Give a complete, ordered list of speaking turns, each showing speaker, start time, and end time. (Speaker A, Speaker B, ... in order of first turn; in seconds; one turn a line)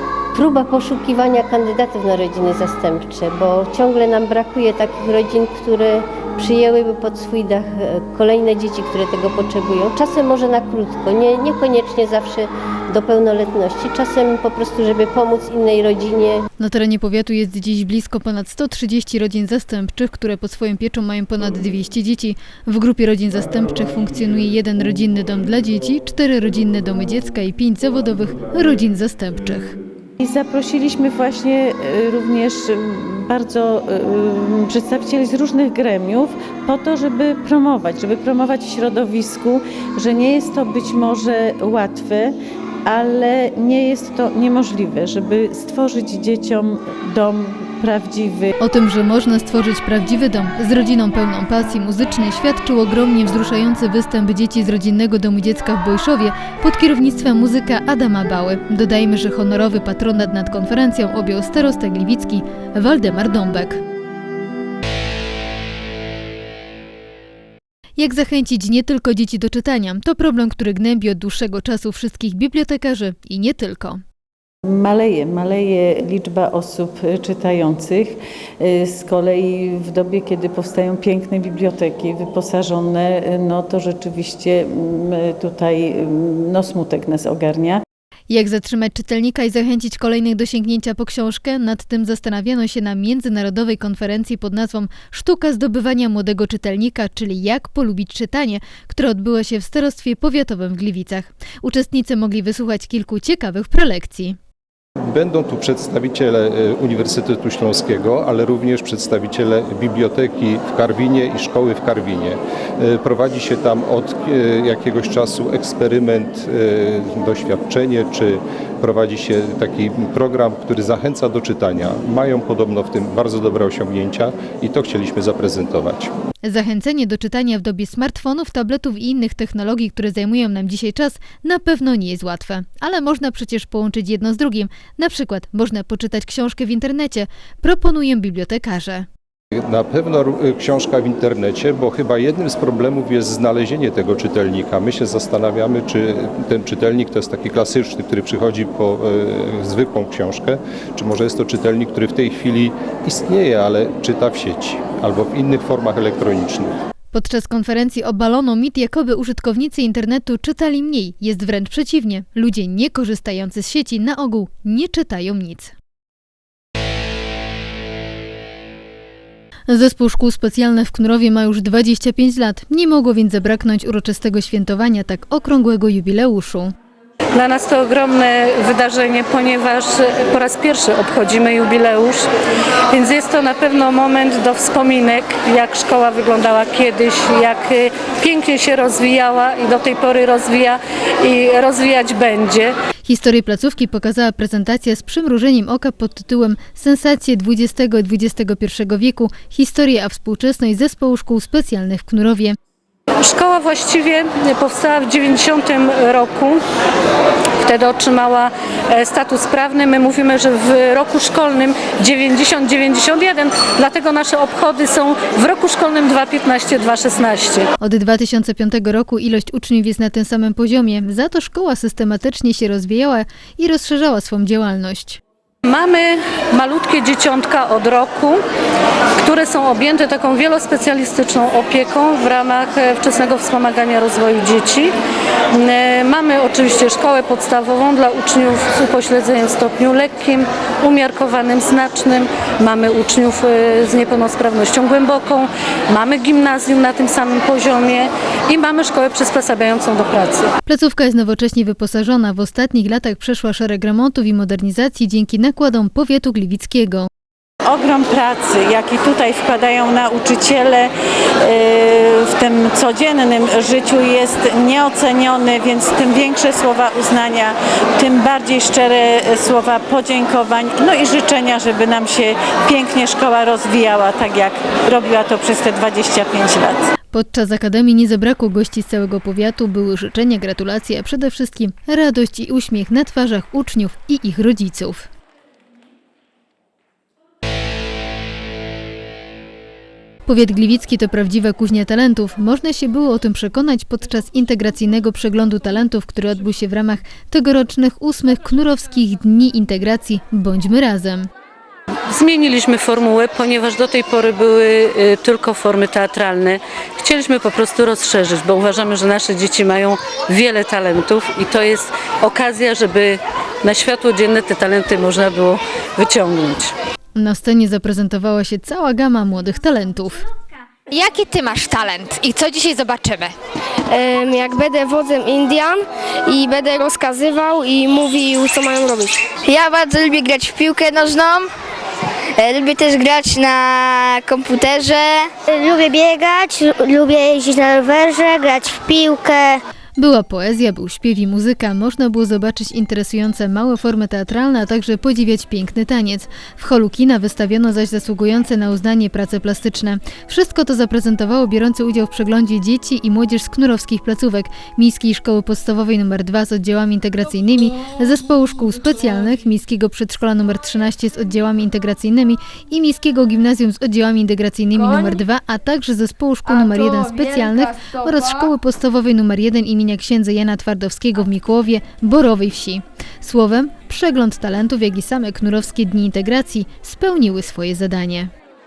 Speaker A: 0.3-16.4
Speaker B: 16.6-29.8
Speaker C: 30.2-48.5
Speaker B: 48.6-63.8
Speaker B: 68.0-74.0
Speaker C: 74.7-87.8
Speaker B: 88.3-104.4
Speaker D: 105.1-126.1
Speaker B: 126.4-139.1
Speaker D: 139.7-156.7
Speaker B: 157.1-165.7
Speaker B: 169.7-176.7
Speaker E: 177.3-182.2
Speaker E: 182.9-192.7
Speaker B: 193.0-202.5
Speaker E: 203.2-206.6
Speaker E: 207.6-217.7
Speaker B: 217.8-225.2
Speaker E: 225.7-228.4
Speaker E: 229.2-234.9
Speaker E: 235.5-250.5
Speaker B: 250.7-257.1
Speaker C: 257.7-260.9
Speaker C: 261.4-276.9
Speaker B: 277.1-285.1
Speaker B: 290.2-301.3
Speaker E: 302.1-316.7
Speaker B: 317.1-320.2
Speaker F: 320.9-323.3
Speaker G: 323.9-331.4
Speaker G: 332.4-339.6
Speaker B: 340.0-378.3